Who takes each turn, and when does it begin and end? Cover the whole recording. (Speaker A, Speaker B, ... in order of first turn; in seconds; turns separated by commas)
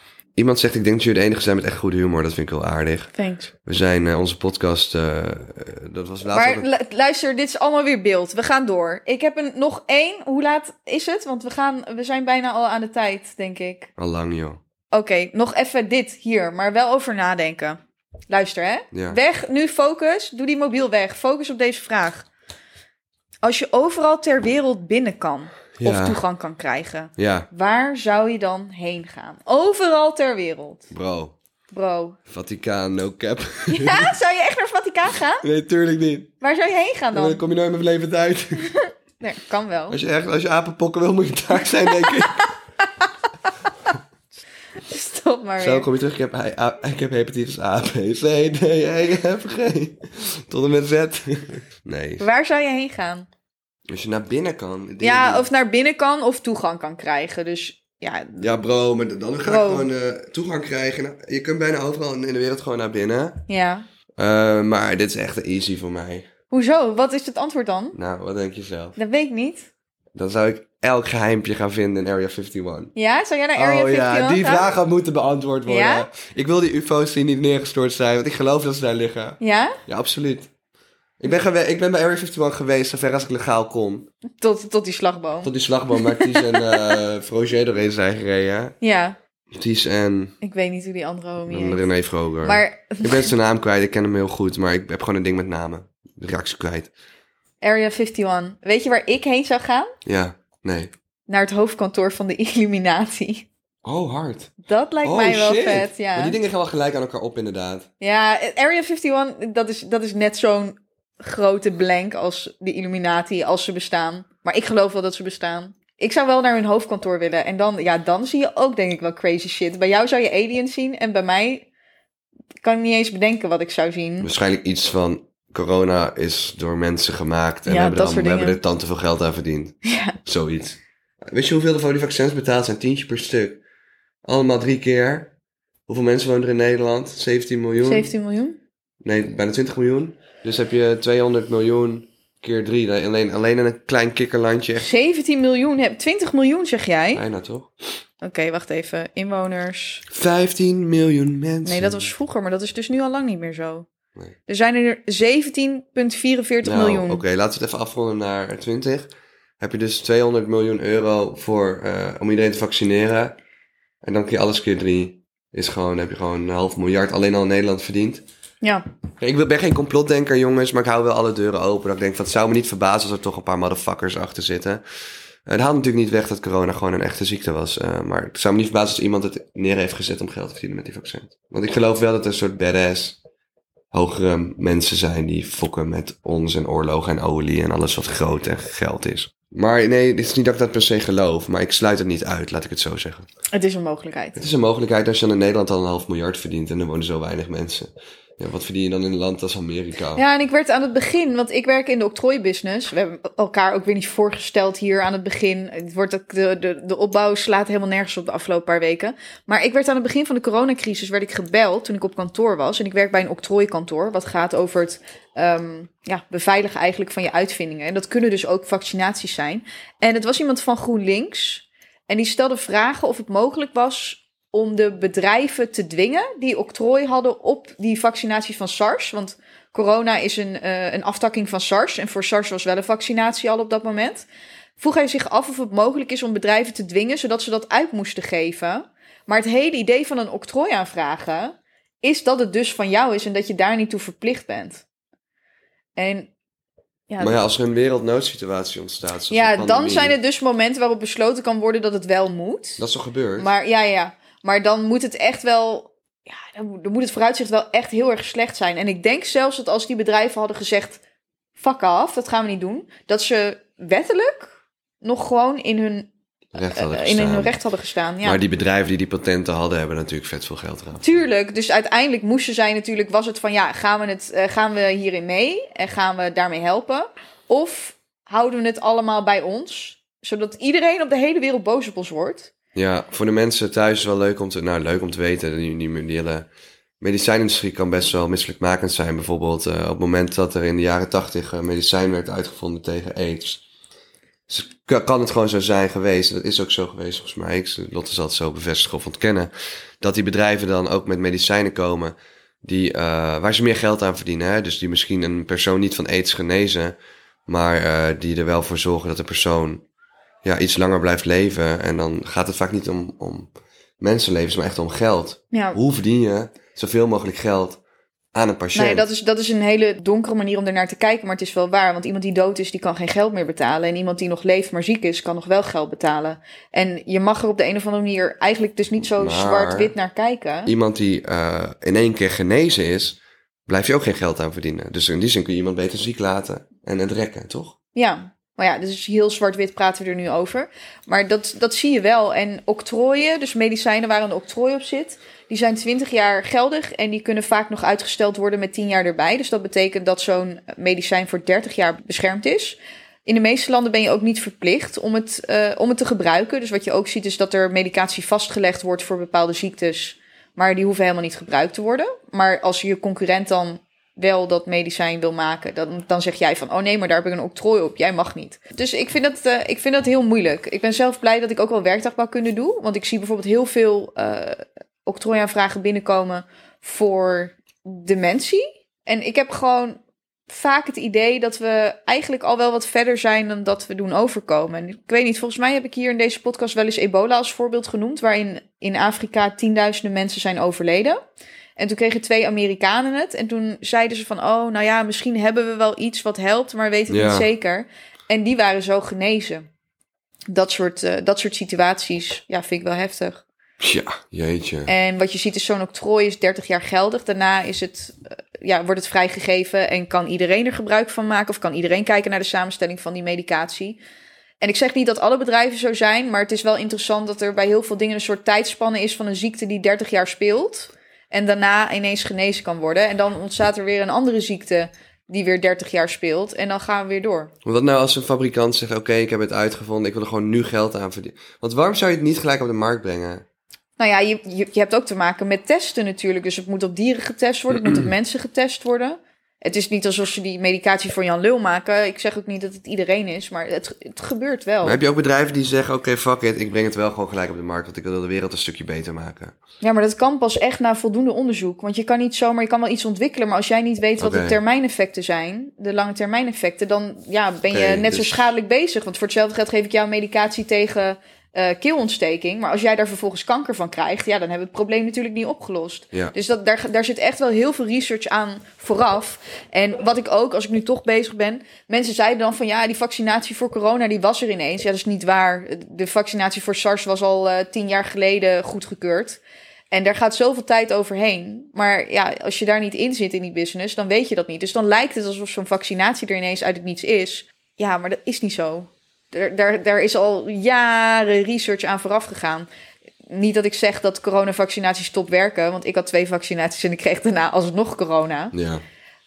Speaker A: 0.4-3.1, Speaker B: 3.1-3.5, Speaker A: 3.6-6.7, Speaker B: 6.3-13.9, Speaker A: 14.0-14.6, Speaker B: 14.9-22.3, Speaker A: 18.9-19.2, Speaker B: 23.4-30.9, Speaker A: 25.8-26.2, Speaker A: 27.2-27.5, Speaker A: 30.9-31.4, Speaker B: 31.7-32.2, Speaker A: 32.3-34.1, Speaker B: 33.7-35.4, Speaker A: 35.4-36.3, Speaker B: 36.4-37.4, Speaker A: 37.1-38.7, Speaker B: 38.7-40.0, Speaker A: 39.9-42.5, Speaker B: 44.8-45.9, Speaker A: 45.6-52.3, Speaker B: 52.2-53.3, Speaker A: 53.9-55.5, Speaker B: 55.0-58.5, Speaker A: 58.4-63.4, Speaker B: 59.5-59.9, Speaker B: 63.5-63.9, Speaker A: 64.2-66.3, Speaker B: 66.5-68.0, Speaker A: 67.9-69.0, Speaker B: 69.0-69.7, Speaker A: 70.2-72.9, Speaker B: 73.0-74.7, Speaker A: 73.5-80.5, Speaker B: 75.7-76.1, Speaker B: 79.4-79.8, Speaker A: 81.2-84.1, Speaker B: 84.4-86.9, Speaker A: 85.4-88.8, Speaker B: 88.8-89.2, Speaker A: 89.5-90.4, Speaker B: 90.4-91.9, Speaker A: 91.5-96.9, Speaker B: 92.4-93.3, Speaker B: 97.6-99.9, Speaker A: 100.0-100.9, Speaker B: 101.3-103.5, Speaker A: 103.8-104.5, Speaker B: 104.7-106.4, Speaker A: 105.0-107.9, Speaker B: 108.0-121.7, Speaker B: 122.6-124.3, Speaker A: 124.2-133.6, Speaker B: 127.7-128.6, Speaker B: 129.8-130.2, Speaker A: 134.2-135.3, Speaker A: 135.9-138.1, Speaker B: 137.8-138.6, Speaker A: 139.0-144.9, Speaker B: 144.8-147.2, Speaker A: 147.1-147.7, Speaker B: 148.2-150.1, Speaker A: 150.1-152.1, Speaker B: 151.6-153.9, Speaker B: 154.5-157.2, Speaker A: 156.6-163.4, Speaker A: 164.0-168.2, Speaker A: 169.2-174.8, Speaker A: 175.5-183.2, Speaker A: 183.9-193.3, Speaker B: 193.5-194.4, Speaker A: 194.4-200.2, Speaker B: 200.2-234.3, Speaker B: 234.8-244.8, Speaker B: 246.0-246.3, Speaker B: 247.1-247.4, Speaker A: 247.2-250.2, Speaker B: 249.3-252.8, Speaker A: 252.8-253.5, Speaker B: 253.4-261.0, Speaker B: 261.6-266.1, Speaker A: 266.5-267.5, Speaker B: 266.7-268.4, Speaker A: 268.2-271.1, Speaker B: 271.0-282.5, Speaker A: 282.8-286.5, Speaker A: 287.0-293.6, Speaker A: 294.5-307.0, Speaker A: 307.5-309.8, Speaker A: 310.4-317.8, Speaker B: 315.5-315.8, Speaker A: 318.3-319.1, Speaker B: 318.8-330.7, Speaker A: 329.0-329.9, Speaker A: 330.7-337.8, Speaker B: 337.9-391.2, Speaker B: 391.8-399.7, Speaker A: 397.1-397.5, Speaker B: 400.5-403.4, Speaker A: 403.8-404.9, Speaker B: 404.9-414.0, Speaker B: 414.6-427.5, Speaker A: 427.6-433.4, Speaker B: 434.0-445.0, Speaker A: 437.7-438.1, Speaker A: 444.8-449.6, Speaker B: 449.8-492.7, Speaker A: 454.2-454.6, Speaker A: 457.7-458.5, Speaker B: 493.3-498.6, Speaker A: 498.5-498.8